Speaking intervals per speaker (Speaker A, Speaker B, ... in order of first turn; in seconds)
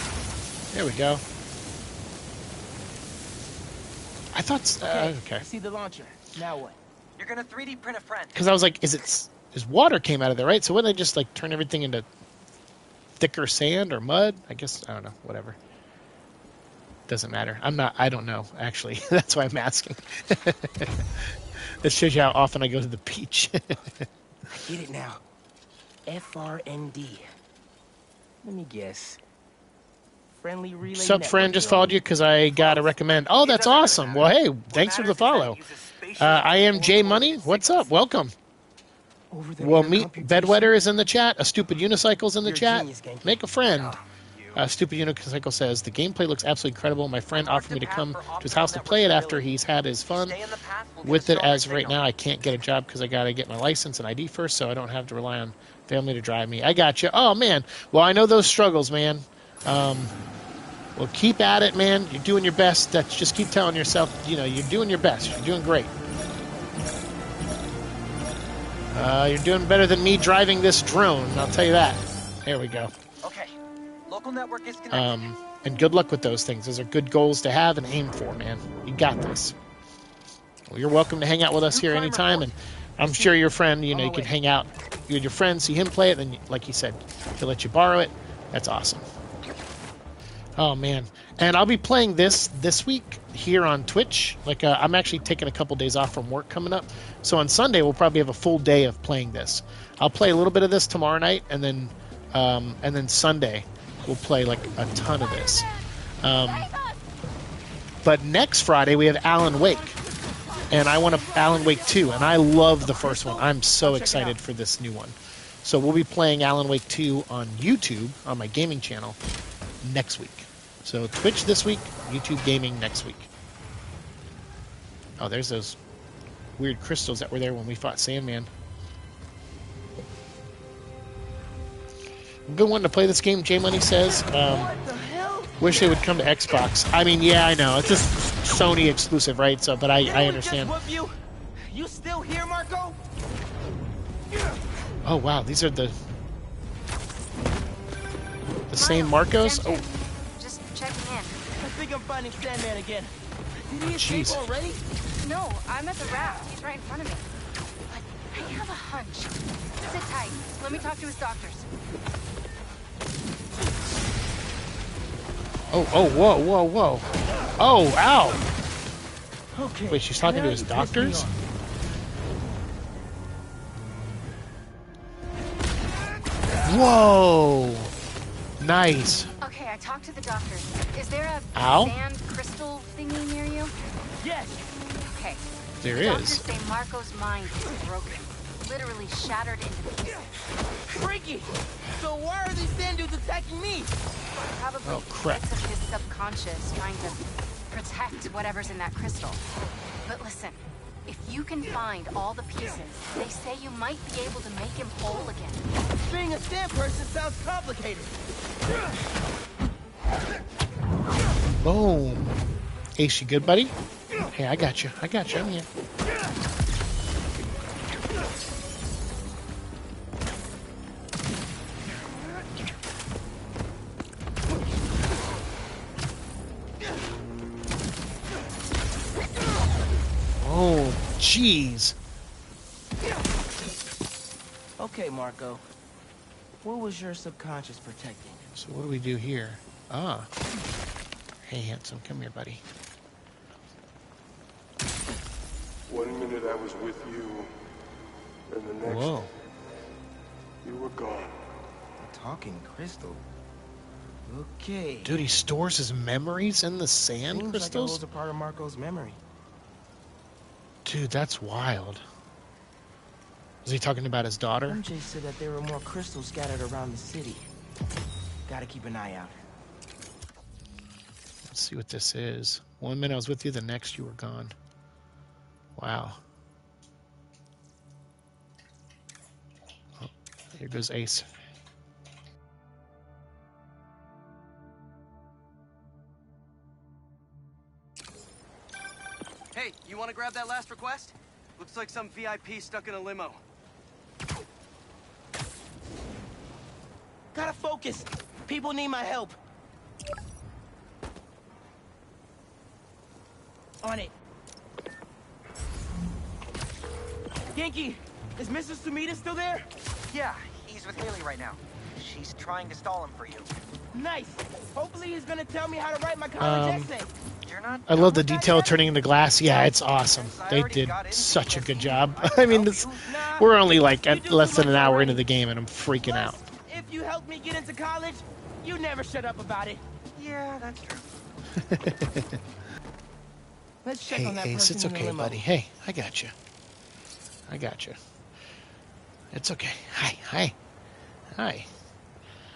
Speaker A: 0.7-1.2, 4.3-5.4, 8.3-12.1, 13.2-15.6, 17.1-24.1, 30.8-35.6, 36.2-38.3, 39.6-44.0, 44.5-50.4, 51.0-60.1, 61.0-65.9, 68.9-72.9, 74.9-79.5, 80.7-89.0, 90.6-105.7, 106.2-106.7, 108.0-110.0, 110.7-119.2, 119.8-123.3, 125.2-125.8, 126.6-128.5, 132.5-134.7, 135.6-140.8, 145.0-145.9, 148.7-149.8, 153.8-154.4, 165.7-167.1, 167.6-168.4, 169.9-171.3, 176.6-177.9, 178.6-179.3, 181.5-181.9, 185.8-186.4, 194.8-195.4, 211.6-212.4, 213.0-213.7, 214.3-215.7, 230.4-231.9, 238.6-240.3, 241.4-242.6, 248.8-249.3, 255.0-258.0, 260.8-262.0, 263.6-264.8, 271.4-274.5, 275.8-276.2, 280.0-281.2, 316.4-316.9, 317.9-326.4, 331.5-332.4, 334.1-336.3, 337.5-338.0, 339.3-340.5, 341.3-341.7
Speaker B: 4.8-6.8, 24.5-25.2, 26.1-27.3, 28.4-29.2, 30.3-32.0, 39.3-40.8, 42.4-43.4, 83.0-84.3, 111.3-112.2, 112.9-114.4, 134.0-136.0, 140.0-141.2, 141.7-143.0, 151.6-153.1, 153.7-154.8, 169.5-171.4, 184.2-184.6, 190.9-193.9, 206.0-208.1, 234.8-235.6, 236.6-238.5, 252.0-253.2, 254.2-255.2, 257.3-259.2, 264.6-267.5, 268.4-269.4, 297.3-299.4, 303.8-304.1, 307.5-309.6, 313.9-317.1, 323.0-325.2, 326.0-329.8, 333.8-335.4
Speaker C: 7.2-8.4, 32.5-38.0, 43.7-44.6, 47.3-49.5, 50.1-52.0, 73.2-73.5, 74.1-75.3, 81.7-82.5, 310.1-313.5, 317.4-318.9, 319.4-323.1, 330.1-331.0
Speaker D: 148.7-151.4, 155.2-157.3, 157.9-161.7, 179.4-183.8, 185.0-190.3, 194.5-199.4, 200.0-205.7
Speaker E: 245.9-247.5, 248.5-249.2, 250.6-251.5
Speaker F: 289.5-293.4